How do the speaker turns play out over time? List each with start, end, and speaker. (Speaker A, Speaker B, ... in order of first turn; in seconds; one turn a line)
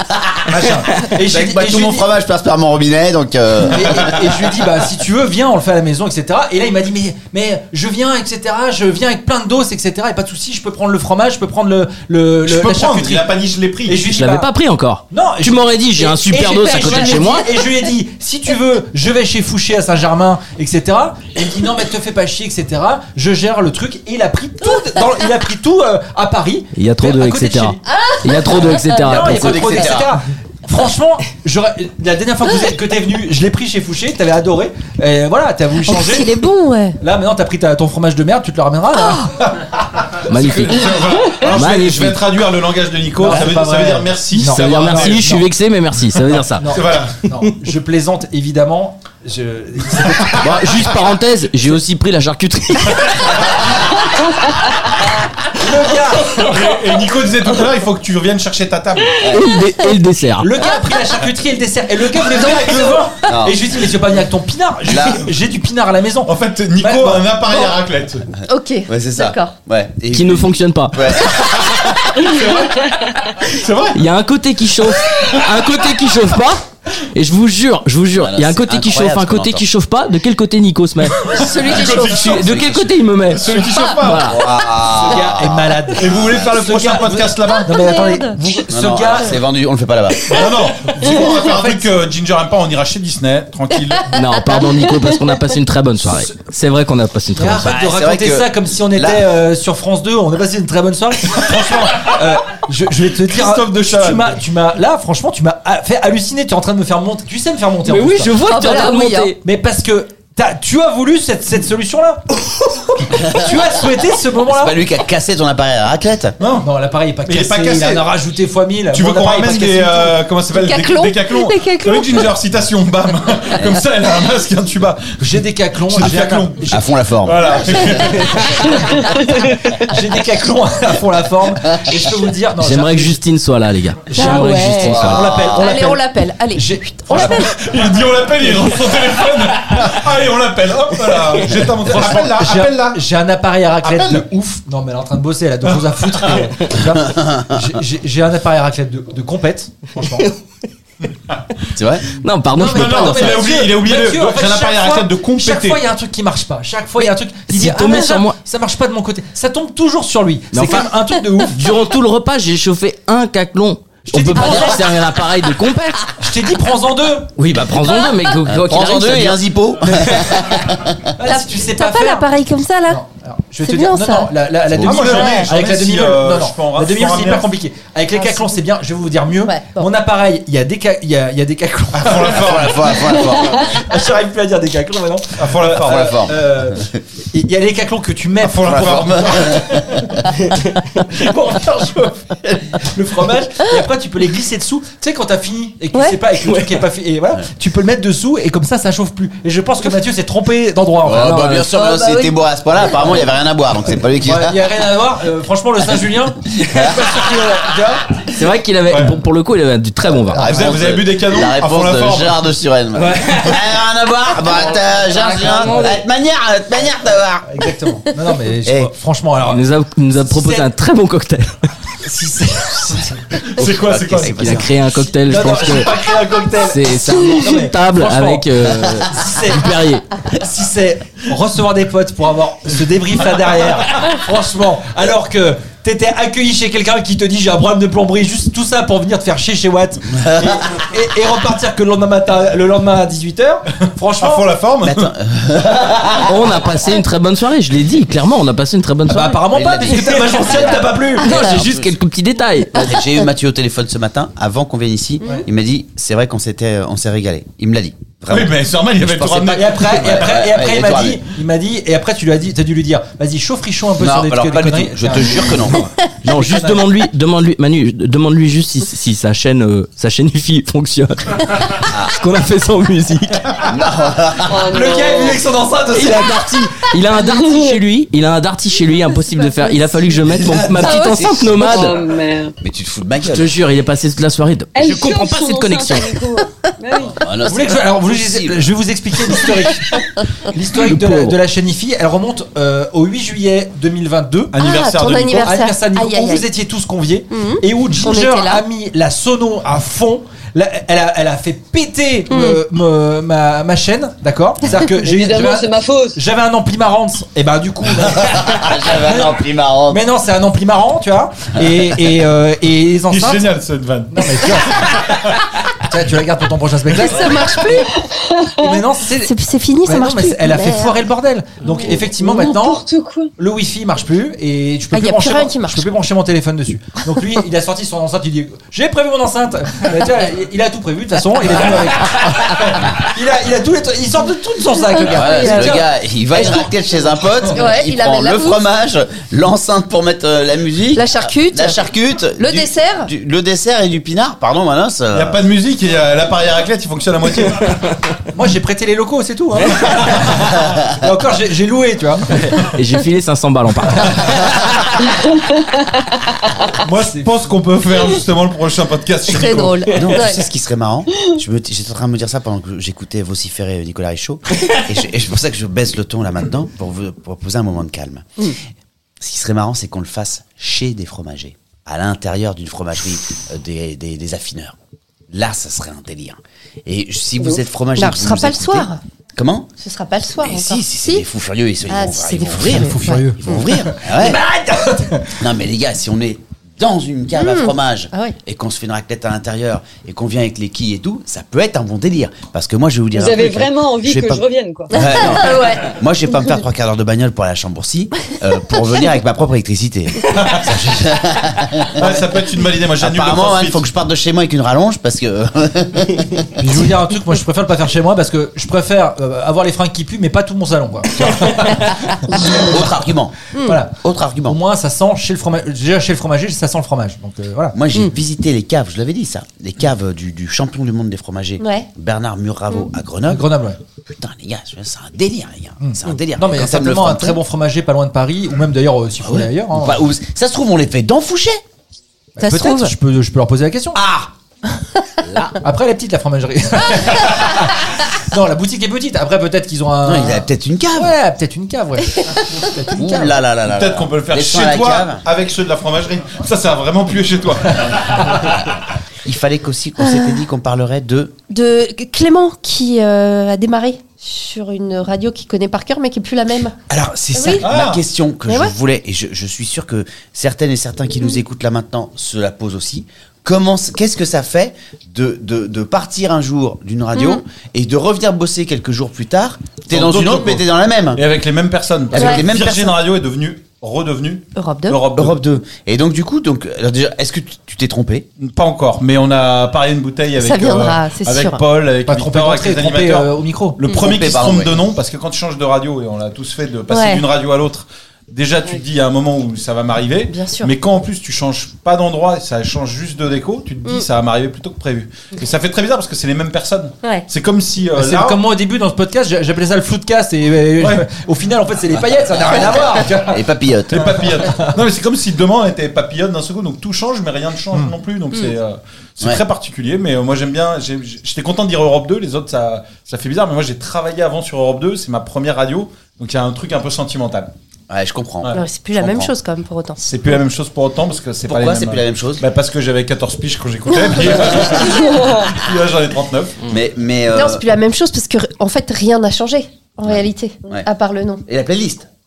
Speaker A: 0.5-2.1
Speaker B: 1.2-4.4
Speaker A: 3.7-13.3
Speaker C: 12.4-14.0
Speaker A: 13.9-14.5
Speaker D: 14.0-17.5
Speaker A: 15.1-27.8
Speaker D: 26.7-29.8
Speaker E: 27.9-28.8
Speaker A: 28.6-36.3
Speaker B: 29.0-30.2
Speaker E: 35.9-37.0
Speaker A: 37.0-39.3
Speaker C: 39.4-45.4
Speaker D: 40.3-42.2
Speaker A: 43.2-45.5
Speaker D: 44.5-46.7
Speaker C: 46.3-47.2
Speaker A: 46.6-50.8
Speaker D: 50.4-53.4
Speaker A: 55.5-56.5
Speaker C: 56.3-59.3
Speaker D: 59.3-60.6
Speaker A: 60.4-67.3
Speaker C: 62.1-62.9
Speaker B: 63.2-63.7
Speaker B: 64.9-65.3
Speaker C: 66.2-68.3
Speaker E: 68.5-69.5
Speaker B: 68.9-71.8
Speaker D: 70.1-71.1
Speaker C: 71.6-74.0
Speaker D: 73.9-76.6
Speaker D: 77.1-81.2
Speaker B: 78.2-79.7
Speaker C: 81.2-82.5
Speaker E: 81.3-82.2
Speaker D: 82.0-84.5
Speaker B: 82.1-83.0
Speaker C: 83.3-84.3
Speaker B: 84.2-86.5
Speaker A: 84.8-89.4
Speaker C: 86.0-87.8
Speaker E: 87.7-88.4
Speaker B: 88.7-90.2
Speaker C: 90.3-94.1
Speaker A: 91.0-91.9
Speaker D: 94.1-97.7
Speaker A: 97.4-108.5
Speaker B: 97.6-99.3
Speaker C: 101.4-102.0
Speaker C: 103.3-104.4
Speaker D: 107.8-109.4
Speaker E: 108.5-109.3
Speaker A: 109.4-114.8
Speaker B: 114.5-116.4
Speaker C: 116.4-116.7
Speaker A: 116.6-120.2
Speaker C: 117.2-118.1
Speaker C: 118.9-128.8
Speaker E: 120.5-122.3
Speaker A: 125.2-126.9
Speaker B: 126.7-128.2
Speaker A: 128.4-128.8
Speaker A: 129.7-133.2
Speaker D: 132.6-135.3
Speaker A: 134.1-137.4
Speaker E: 134.1-135.0
Speaker B: 134.8-135.8
Speaker E: 135.5-137.5
Speaker C: 137.2-143.0
Speaker D: 141.1-141.4
Speaker A: 141.8-150.3
Speaker C: 143.8-144.2
Speaker C: 145.7-146.4
Speaker B: 147.0-147.6
Speaker D: 150.0-150.3
Speaker C: 151.3-151.7
Speaker B: 151.7-152.1
Speaker D: 152.2-153.4
Speaker A: 152.5-161.6
Speaker C: 152.7-155.8
Speaker D: 157.0-158.4
Speaker D: 160.5-160.9
Speaker D: 161.5-166.1
Speaker A: 164.1-164.9
Speaker A: 166.2-167.3
Speaker D: 167.4-169.4
Speaker B: 168.4-171.0
Speaker A: 171.2-172.3
Speaker E: 171.2-173.0
Speaker A: 172.9-190.2
Speaker E: 173.6-174.3
Speaker C: 174.7-177.5
Speaker E: 175.0-175.5
Speaker E: 178.1-178.6
Speaker E: 179.4-179.9
Speaker C: 181.9-183.4
Speaker B: 182.3-183.7
Speaker C: 185.4-186.1
Speaker B: 185.8-187.0
Speaker C: 188.4-189.7
Speaker B: 188.6-190.1
Speaker A: 190.9-201.4
Speaker E: 195.9-196.2
Speaker D: 196.4-196.8
Speaker B: 201.0-204.7
Speaker D: 201.1-201.7
Speaker E: 201.7-202.4
Speaker A: 204.2-208.2
Speaker B: 206.7-207.1
Speaker D: 208.3-210.4
Speaker C: 208.9-209.1
Speaker B: 210.3-217.6
Speaker C: 210.4-212.4
Speaker A: 212.9-213.6
Speaker A: 215.1-216.0
Speaker A: 217.4-219.6
Speaker B: 218.6-218.9
Speaker D: 219.5-221.6
Speaker A: 220.2-220.7
Speaker A: 222.0-223.4
Speaker C: 223.4-224.7
Speaker B: 223.6-224.8
Speaker D: 224.2-226.0
Speaker A: 225.1-244.5
Speaker D: 226.5-230.0
Speaker B: 240.2-240.5
Speaker C: 244.2-245.1
Speaker B: 244.8-246.6
Speaker D: 246.2-249.5
Speaker A: 249.1-251.4
Speaker B: 249.4-251.9
Speaker D: 251.2-252.9
Speaker E: 251.2-251.6
Speaker B: 252.7-261.2
Speaker C: 258.3-260.5
Speaker A: 259.4-266.9
Speaker B: 264.0-265.9
Speaker D: 266.2-273.6
Speaker B: 273.7-274.6
Speaker F: 274.4-275.4
Speaker A: 274.7-276.5
Speaker D: 274.8-275.3
Speaker D: 275.9-282.0
Speaker F: 277.2-277.7
Speaker E: 280.8-281.3
Speaker F: 281.6-282.5
Speaker B: 282.6-283.5
Speaker D: 283.2-286.1
Speaker F: 284.7-287.2
Speaker B: 287.2-288.7
Speaker A: 287.5-294.5
Speaker D: 290.8-291.4
Speaker C: 294.5-295.5
Speaker E: 294.6-296.5
Speaker A: 295.3-313.5
Speaker E: 297.3-298.6
Speaker E: 302.3-302.6
Speaker F: 305.0-306.2
Speaker B: 308.1-310.0
Speaker C: 313.1-315.5
Speaker A: 314.1-315.1
Speaker A: 315.8-317.7
Speaker E: 316.9-318.0
Speaker F: 318.1-318.6
Speaker A: 318.6-319.3
Speaker E: 319.1-321.0
Speaker A: 319.9-322.8
Speaker F: 321.6-323.3
Speaker A: 323.4-335.8
Speaker E: 324.9-325.9
Speaker E: 335.1-335.9
Speaker B: 335.1-345.4
Speaker A: 336.3-336.6
Speaker E: 337.5-338.6
Speaker E: 340.9-341.8
Speaker E: 342.4-343.1
Speaker C: 345.1-347.8
Speaker A: 348.3-352.7
Speaker D: 352.7-354.4
Speaker C: 356.8-360.0
Speaker E: 359.3-360.4
Speaker B: 359.9-368.3
Speaker B: 369.2-374.8
Speaker B: 375.3-379.7
Speaker E: 378.0-379.0
Speaker E: 379.8-381.2
Speaker B: 380.4-384.4
Speaker E: 381.9-383.6
Speaker A: 382.6-385.4
Speaker B: 385.4-402.2
Speaker E: 387.4-388.4
Speaker F: 393.1-394.9
Speaker E: 394.9-395.9
Speaker C: 400.3-400.8
Speaker C: 401.9-403.9
Speaker B: 403.0-406.5
Speaker A: 406.6-412.4
Speaker B: 412.3-413.4
Speaker A: 413.6-414.0
Speaker B: 413.9-414.6
Speaker A: 414.5-417.8
Speaker B: 417.7-423.5
Speaker E: 421.6-421.9
Speaker A: 423.3-423.8
Speaker B: 424.1-427.4
Speaker A: 425.8-430.0
Speaker B: 429.2-431.6
Speaker A: 432.4-434.0
Speaker E: 432.4-432.9
Speaker B: 434.0-434.3
Speaker B: 435.2-435.6
Speaker A: 435.6-443.4
Speaker B: 440.0-441.1
Speaker B: 442.9-445.2
Speaker C: 443.6-448.6
Speaker B: 449.2-451.4
Speaker E: 451.5-456.8
Speaker B: 456.9-471.2
Speaker E: 457.3-457.7
Speaker C: 457.6-458.0
Speaker E: 458.5-458.7
Speaker E: 467.1-467.4
Speaker C: 469.9-475.4
Speaker B: 472.1-473.0
Speaker E: 472.1-472.4
Speaker E: 474.5-475.0
Speaker B: 475.1-478.3
Speaker C: 478.4-498.4
Speaker E: 480.4-481.6
Speaker A: 482.1-483.8
Speaker B: 483.9-484.9
Speaker E: 486.9-487.2
Speaker E: 490.3-490.7
Speaker E: 497.0-497.3
Speaker A: 497.9-503.5
Speaker C: 500.8-501.1
Speaker B: 502.4-504.4
Speaker C: 503.9-517.5
Speaker A: 504.1-504.7
Speaker B: 517.9-519.3
Speaker E: 518.5-520.0
Speaker C: 520.0-526.6
Speaker B: 521.4-522.4
Speaker F: 524.9-525.5
Speaker B: 526.6-527.6
Speaker E: 527.3-531.4
Speaker B: 530.0-530.9
Speaker B: 531.5-532.1